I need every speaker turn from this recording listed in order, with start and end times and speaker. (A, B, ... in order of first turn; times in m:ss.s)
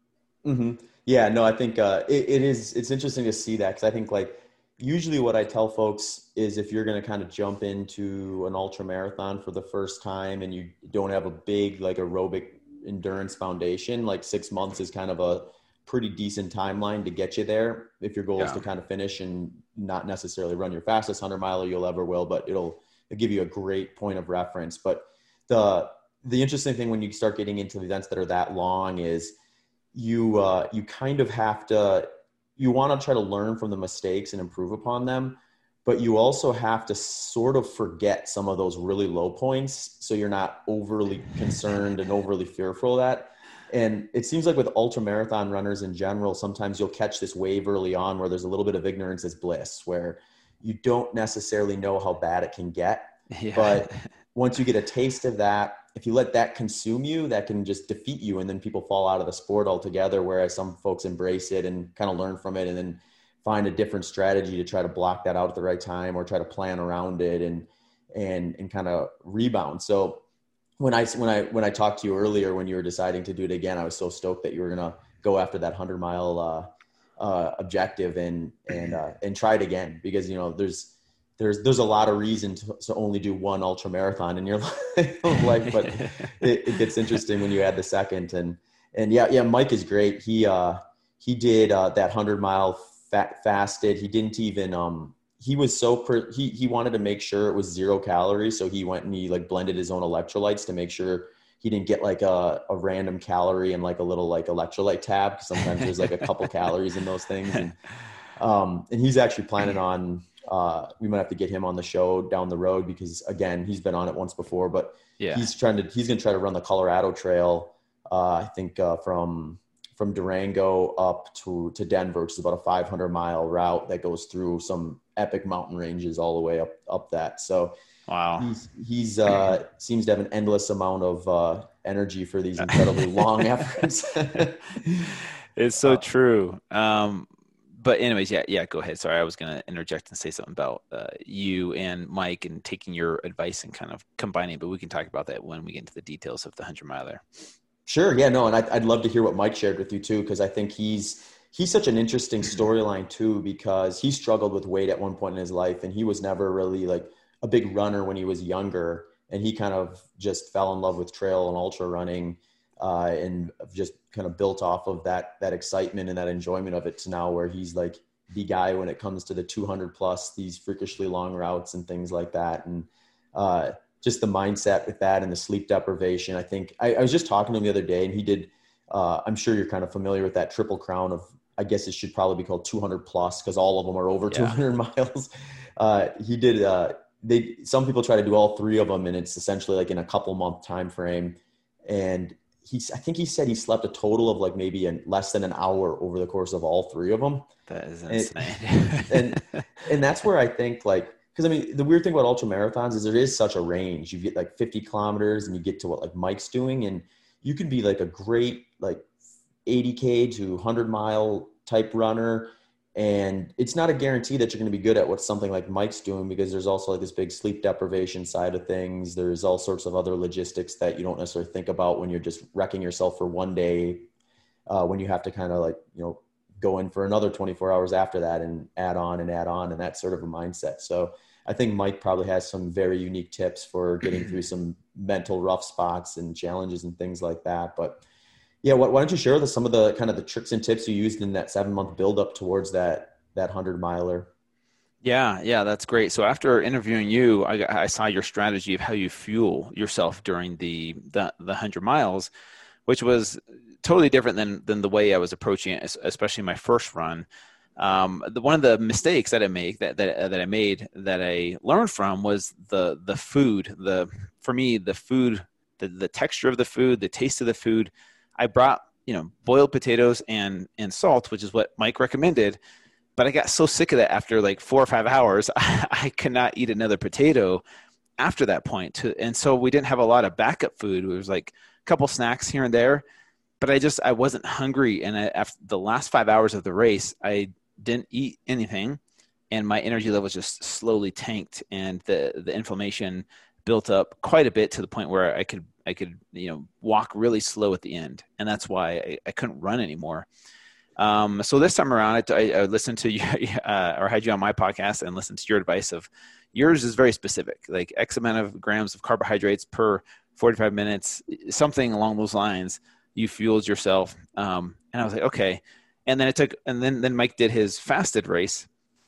0:00.4-0:29.3 A
0:18.4-0:18.6 B
0:29.9-1:10.2 A
0:53.4-0:54.0 B
1:10.8-1:47.8 A
1:25.8-1:26.3 B
1:48.4-2:07.7 A
1:55.2-1:55.4 B
2:08.1-2:08.5 B
2:08.4-2:15.2 A
2:12.7-2:13.2 B
2:15.6-2:27.2 B
2:27.8-3:17.5 A
3:04.3-3:04.6 B
3:17.7-3:19.6 B
3:18.1-3:29.0 A
3:29.6-3:44.1 A
3:44.7-3:58.0 A
3:58.6-4:04.3 A
4:05.0-4:12.3 B
4:12.9-4:17.3 B
4:17.8-4:32.6 B
4:33.2-4:37.6 B
4:38.2-4:43.0 B
4:43.6-4:49.0 B
4:49.5-5:00.3 B
5:01.0-5:18.7 B